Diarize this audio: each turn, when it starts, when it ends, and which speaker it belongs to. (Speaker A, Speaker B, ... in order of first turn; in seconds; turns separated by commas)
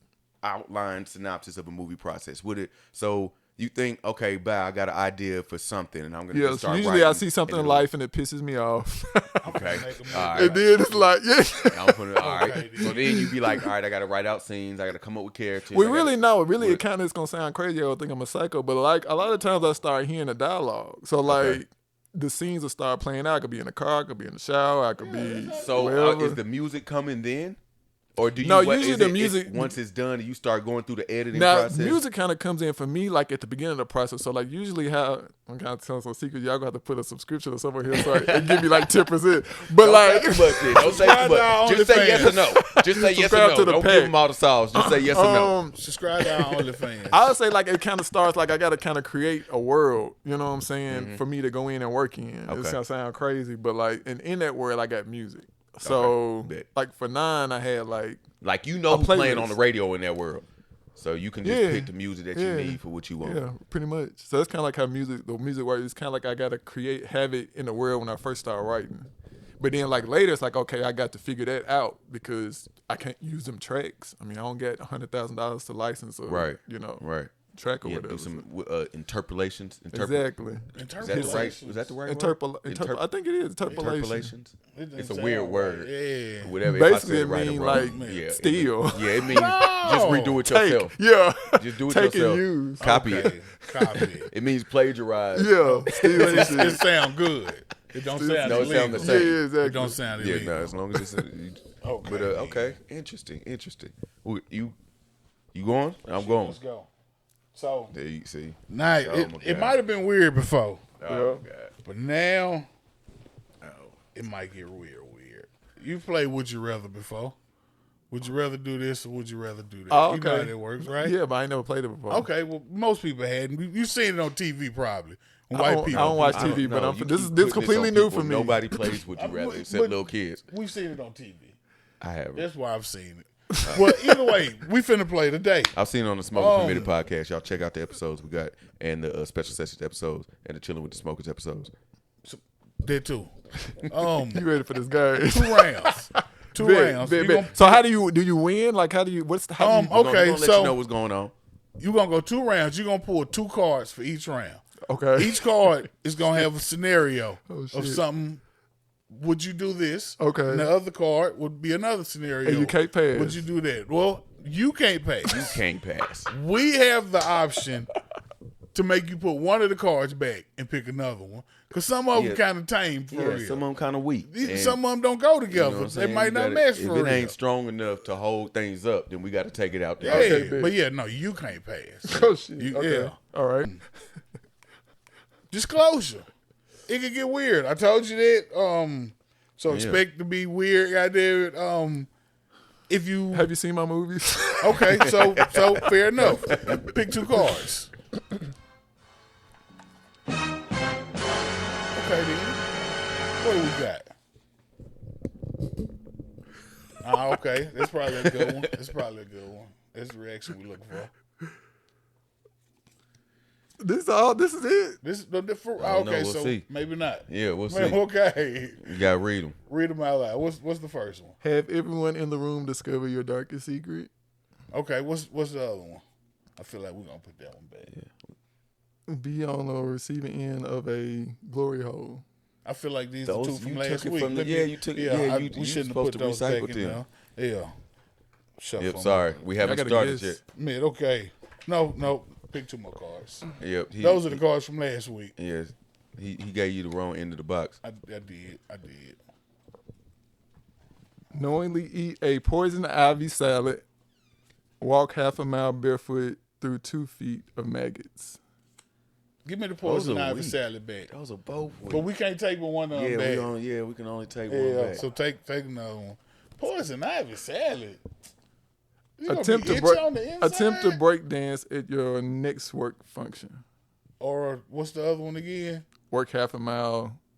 Speaker A: 0.4-7.9, Speaker B: 6.3-13.6, Speaker C: 9.4-11.2, Speaker A: 9.5-10.6, Speaker A: 11.7-16.8, Speaker C: 12.2-13.0, Speaker B: 15.7-26.4, Speaker A: 21.2-21.6, Speaker C: 25.0-26.0, Speaker A: 25.6-27.6, Speaker A: 28.2-32.0, Speaker B: 28.4-29.7, Speaker B: 31.3-41.0, Speaker A: 37.9-38.9, Speaker A: 39.8-45.6, Speaker C: 40.8-42.5, Speaker B: 42.1-44.2, Speaker B: 44.8-58.2, Speaker C: 45.7-47.4, Speaker A: 50.9-51.2, Speaker A: 52.5-52.8, Speaker A: 55.8-56.7, Speaker A: 58.4-63.4, Speaker B: 58.9-59.6, Speaker B: 61.4-78.5, Speaker A: 76.3-77.3, Speaker A: 77.8-80.2, Speaker B: 79.9-81.5, Speaker C: 80.8-82.0, Speaker A: 81.0-83.0, Speaker B: 82.1-84.3, Speaker A: 83.7-91.0, Speaker C: 84.7-86.6, Speaker B: 86.6-89.4, Speaker C: 87.6-88.3, Speaker C: 89.3-90.5, Speaker B: 90.5-94.1, Speaker A: 91.5-93.3, Speaker C: 92.8-94.3, Speaker A: 94.3-96.8, Speaker B: 95.3-96.8, Speaker C: 95.6-100.7, Speaker B: 98.1-100.0, Speaker A: 98.4-99.4, Speaker A: 100.2-104.8, Speaker C: 101.8-102.8, Speaker A: 105.5-106.6, Speaker C: 106.0-106.9, Speaker C: 107.5-107.9, Speaker A: 107.9-109.8, Speaker C: 108.7-110.9, Speaker A: 111.0-111.7, Speaker B: 111.1-111.4, Speaker C: 111.8-112.7, Speaker A: 113.6-114.0, Speaker C: 114.1-117.4, Speaker C: 118.1-121.2, Speaker B: 119.9-122.3, Speaker C: 122.1-126.7, Speaker B: 125.5-129.0, Speaker A: 125.9-130.4, Speaker C: 129.2-131.6, Speaker A: 132.0-132.5, Speaker C: 132.3-135.8, Speaker B: 133.5-133.9, Speaker A: 133.7-133.9, Speaker A: 135.7-141.7, Speaker C: 136.3-136.9, Speaker C: 142.2-144.4, Speaker B: 144.3-149.9, Speaker C: 145.2-147.8, Speaker C: 149.6-150.8, Speaker A: 149.9-151.3, Speaker C: 151.8-154.6, Speaker B: 154.9-155.4, Speaker C: 155.2-158.4, Speaker B: 157.5-158.0, Speaker C: 159.1-165.6, Speaker B: 160.2-160.7, Speaker B: 162.4-163.4, Speaker A: 165.2-166.3, Speaker C: 166.3-167.9, Speaker C: 168.7-173.7, Speaker A: 172.1-172.4, Speaker A: 173.1-174.8, Speaker C: 174.3-177.4, Speaker A: 175.5-180.5, Speaker C: 180.0-183.8, Speaker B: 180.0-180.8, Speaker B: 182.1-183.7, Speaker C: 185.5-186.3, Speaker C: 186.9-192.1, Speaker A: 189.7-190.0, Speaker C: 192.9-193.5, Speaker B: 193.3-196.8, Speaker C: 194.6-197.9, Speaker A: 195.0-195.8, Speaker C: 201.9-202.6, Speaker C: 203.4-204.1, Speaker C: 207.0-211.1, Speaker B: 213.8-215.0, Speaker C: 215.0-218.9, Speaker A: 215.8-216.7, Speaker A: 217.3-218.0, Speaker A: 218.8-219.6, Speaker C: 219.7-221.4, Speaker B: 221.4-224.1, Speaker C: 224.7-226.0, Speaker C: 226.6-227.9, Speaker B: 229.1-232.2, Speaker C: 232.7-237.7, Speaker A: 233.3-237.0, Speaker C: 238.6-239.3, Speaker A: 238.8-240.4, Speaker B: 239.6-240.4, Speaker C: 240.6-243.5, Speaker A: 243.6-244.4, Speaker C: 244.0-245.3, Speaker A: 245.4-247.8, Speaker C: 247.8-249.2, Speaker B: 251.3-253.9, Speaker B: 254.8-258.4, Speaker C: 259.4-261.1, Speaker A: 259.8-262.1, Speaker C: 261.9-263.5, Speaker A: 262.9-265.0, Speaker C: 264.5-268.0, Speaker C: 269.2-271.0, Speaker B: 269.3-273.6, Speaker C: 274.2-275.9, Speaker B: 276.1-277.2